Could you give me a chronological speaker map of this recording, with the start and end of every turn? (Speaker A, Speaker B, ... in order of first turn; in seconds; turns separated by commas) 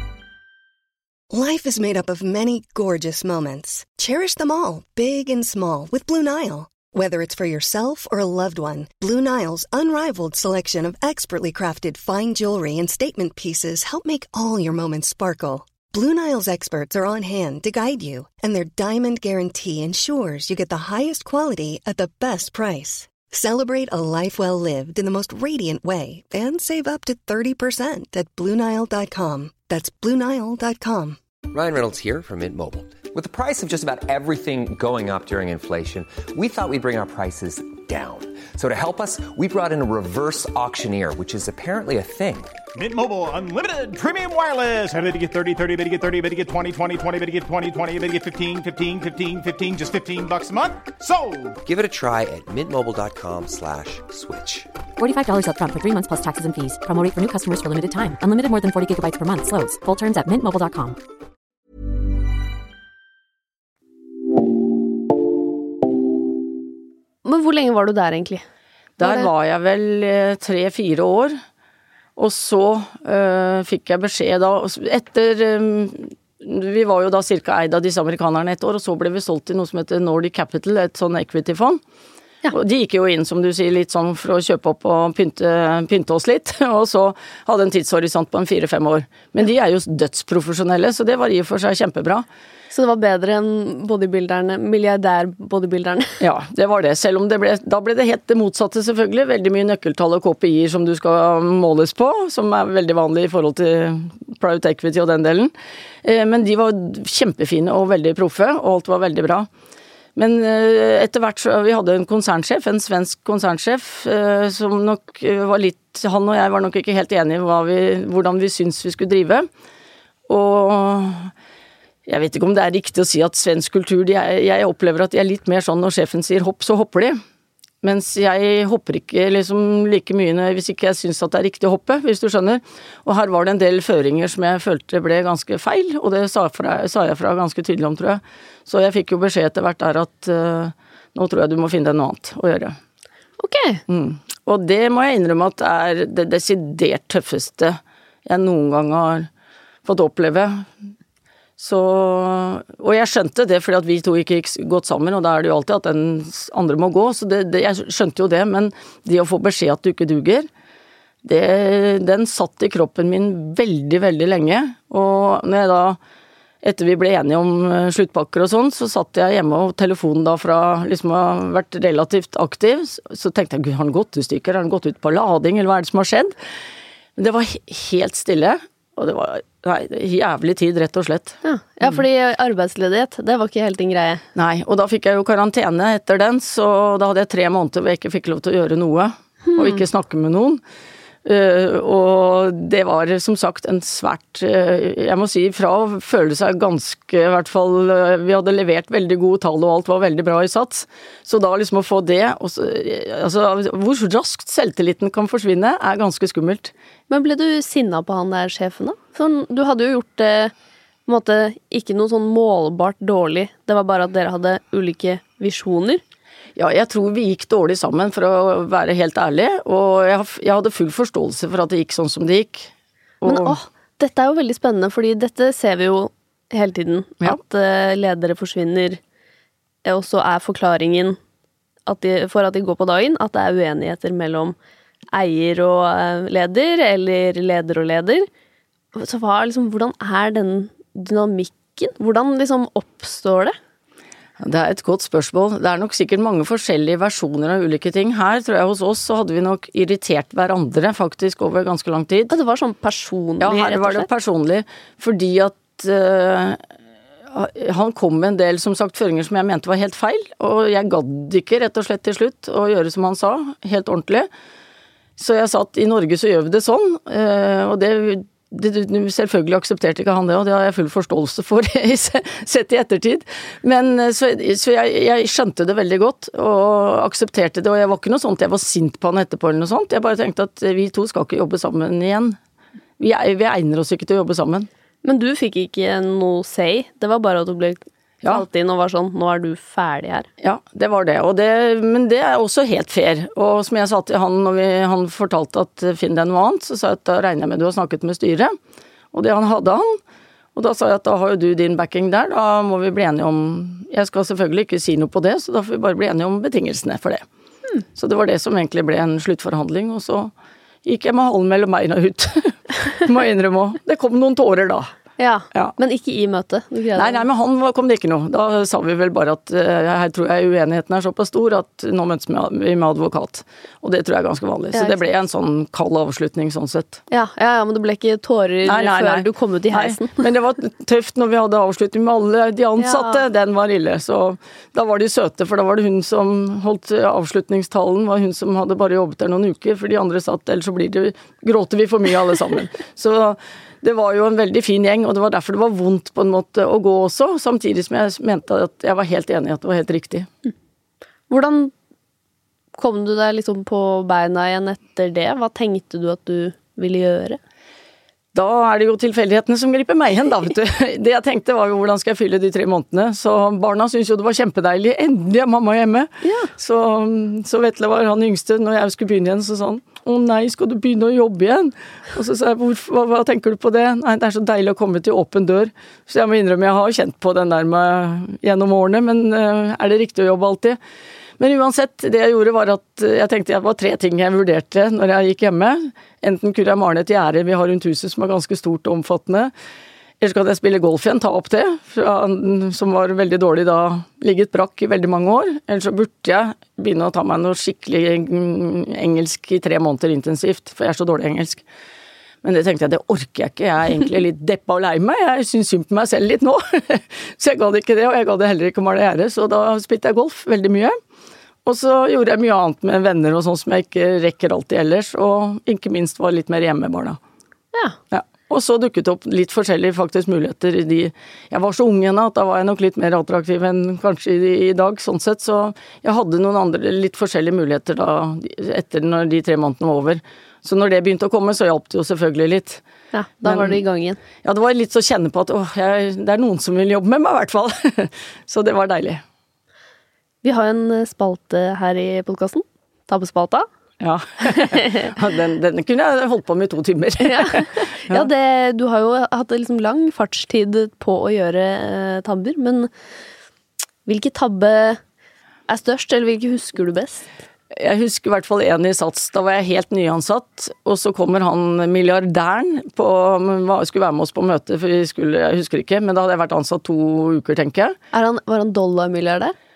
Speaker A: 1.3-31.2, Speaker B: 31.5-42.5, Speaker C: 42.7-51.6, Speaker B: 51.6-54.7, Speaker D: 55.0-61.0, Speaker E: 67.2-68.4, Speaker F: 69.0-71.4, Speaker E: 69.0-69.3, Speaker F: 72.2-81.8, Speaker F: 82.5-92.3, Speaker E: 92.7-96.2, Speaker F: 96.2-109.5, Speaker F: 110.1-119.5, Speaker F: 120.3-121.3, Speaker F: 122.0-127.2, Speaker F: 127.8-142.8, Speaker E: 143.4-143.8, Speaker F: 143.9-149.3, Speaker F: 149.8-150.7, Speaker F: 151.6-160.5, Speaker F: 161.2-166.0, Speaker F: 166.6-176.4, Speaker F: 177.2-182.0, Speaker E: 181.4-184.2, Speaker F: 184.3-190.6, Speaker E: 189.4-189.8, Speaker F: 191.2-206.7, Speaker E: 207.1-210.5, Speaker E: 211.1-216.0, Speaker F: 216.6-223.6, Speaker E: 223.2-229.0, Speaker E: 229.8-231.2, Speaker E: 231.9-234.6, Speaker E: 235.1-238.3, Speaker E: 238.9-243.6, Speaker F: 244.4-252.3, Speaker E: 252.3-254.1, Speaker F: 253.4-256.6, Speaker F: 257.3-264.3, Speaker F: 265.2-282.4, Speaker F: 283.0-284.7, Speaker E: 285.0-290.3, Speaker F: 290.4-298.6, Speaker F: 299.1-300.0, Speaker F: 300.5-307.2, Speaker F: 307.9-310.3, Speaker F: 310.8-314.9, Speaker E: 315.2-317.2, Speaker F: 316.9-327.0, Speaker E: 324.7-325.0, Speaker E: 327.1-330.2, Speaker F: 328.6-350.3, Speaker E: 332.8-333.2, Speaker E: 351.3-351.7, Speaker E: 352.8-357.4, Speaker F: 358.3-380.8, Speaker E: 366.2-366.5, Speaker F: 381.4-389.5, Speaker F: 390.2-401.6, Speaker F: 402.4-411.0, Speaker F: 411.6-417.2, Speaker F: 418.1-432.8, Speaker E: 433.1-434.2, Speaker F: 433.4-433.8, Speaker F: 434.4-439.2, Speaker E: 440.4-443.7, Speaker F: 444.0-448.3, Speaker E: 444.4-445.1, Speaker E: 447.2-452.9, Speaker E: 454.0-455.0, Speaker E: 455.7-457.3, Speaker F: 457.7-467.9, Speaker E: 468.1-469.5